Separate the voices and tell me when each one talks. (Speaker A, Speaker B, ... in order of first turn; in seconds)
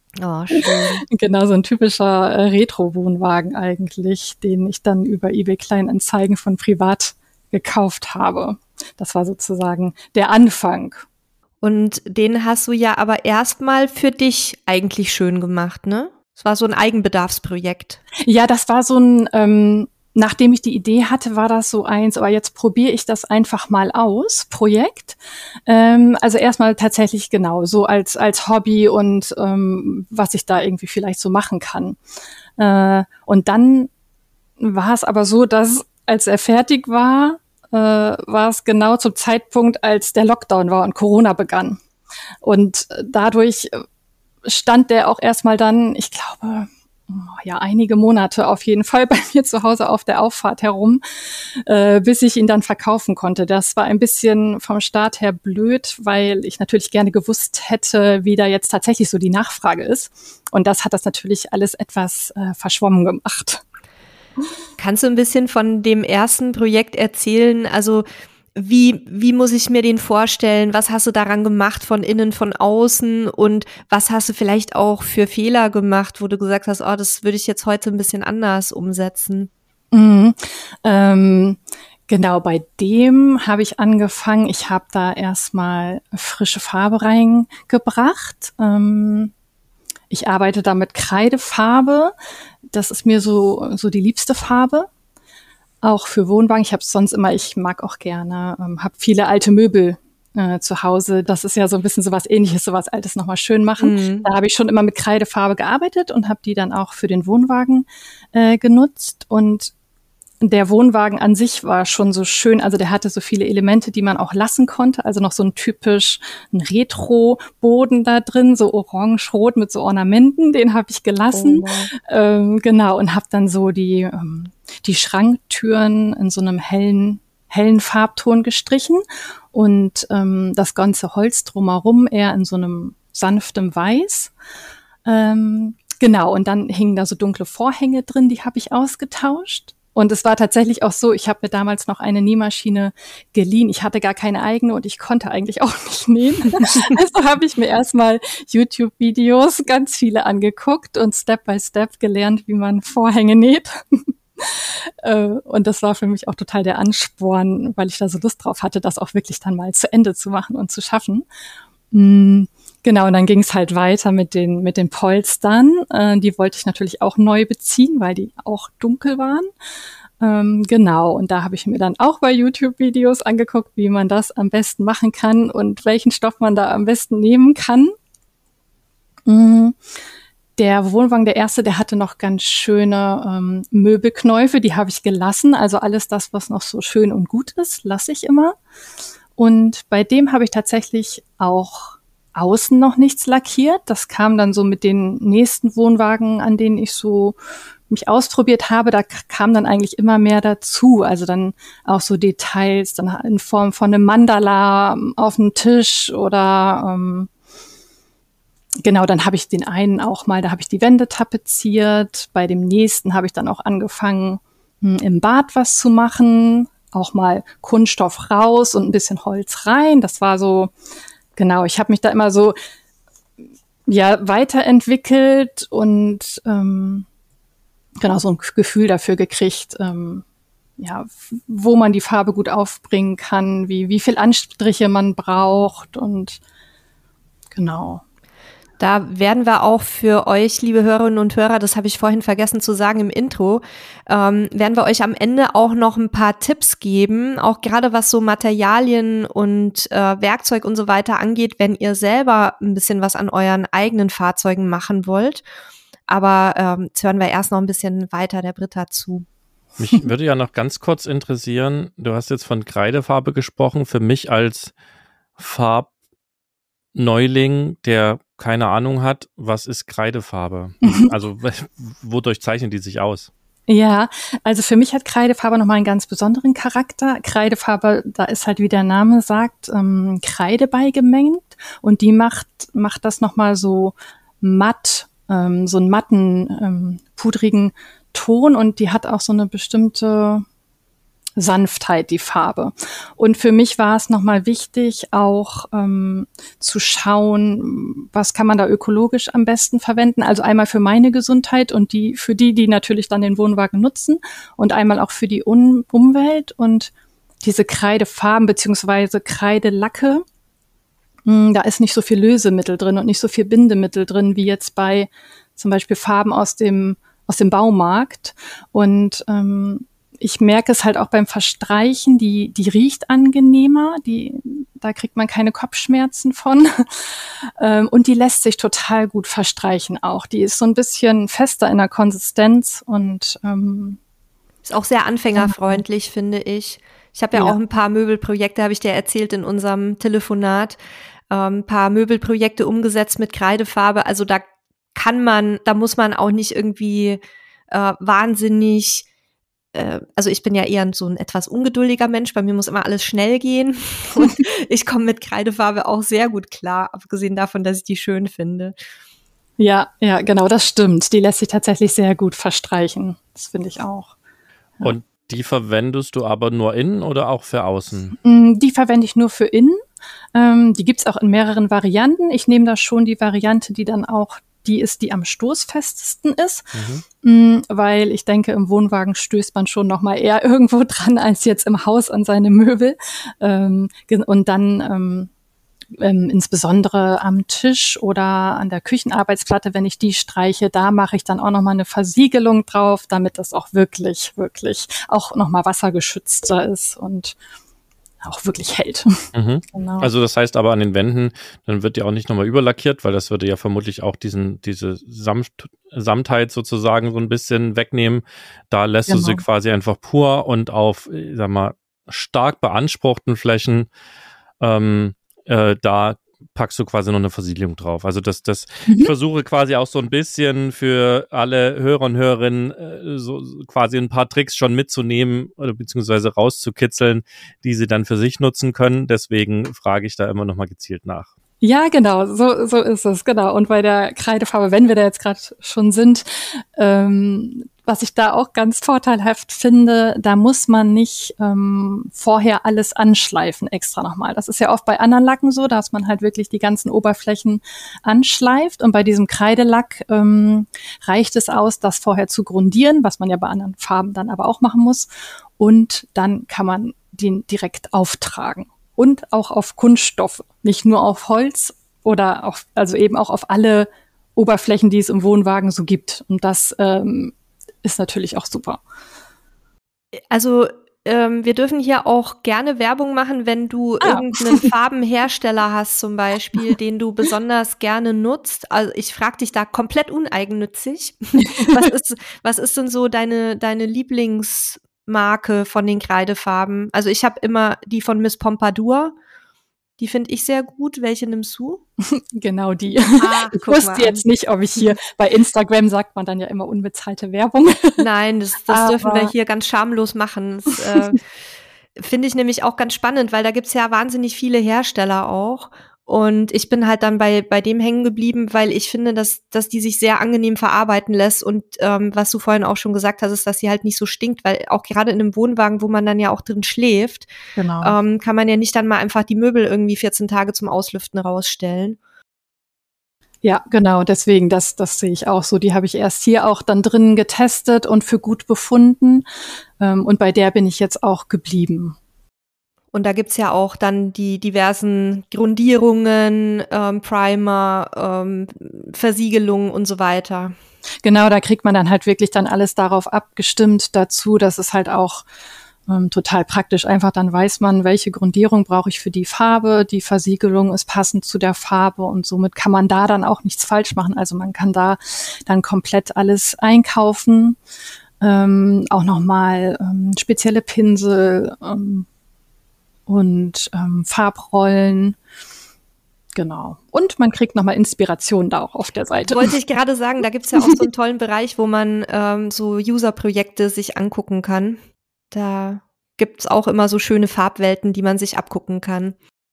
Speaker A: 0.2-1.0, 11.6-18.0, 64.8-79.5, 103.8-104.2, 121.3-121.9, 238.8-255.4, 256.1-259.2, 334.6-340.8, 341.3-344.4, 344.9-349.1, 349.7-358.8, 470.3-489.1, 490.0-491.8, 493.1-494.2, 498.0-501.2, 502.0-517.3, 517.8-522.0, 532.9-540.5, 569.3-574.8, 575.3-579.1
Speaker B: 0.5-11.1, 18.2-32.0, 32.6-33.9, 34.6-41.8, 42.4-43.8, 44.4-63.6, 79.9-89.3, 90.1-92.1, 92.7-94.9, 95.8-109.7, 110.4-134.3, 135.1-161.2, 161.9-169.5, 170.2-177.9, 179.3-179.8, 180.6-188.5, 189.4-197.3, 197.9-207.3, 208.8-220.7, 221.3-222.6, 223.9-227.1, 228.0-230.2, 230.8-236.4, 237.6-238.0, 270.8-271.1, 273.7-290.4, 291.4-306.9, 307.4-310.2, 311.2-334.0, 335.4-335.8, 359.6-364.1, 368.2-369.8, 370.3-385.3, 386.0-397.4, 398.2-400.1, 409.1-409.4, 418.9-419.1, 431.6-468.8, 474.0-474.7, 481.4-481.9, 492.0-498.0, 498.7-499.3, 517.5-518.0, 523.4-529.2, 529.8-532.0, 541.0-545.2, 545.9-557.6, 558.2-562.1, 563.1-565.1, 566.4-569.5
Speaker C: 259.8-264.7, 265.4-265.9, 266.9-273.3, 364.8-368.1, 376.8-377.0, 399.3-413.9, 414.6-431.3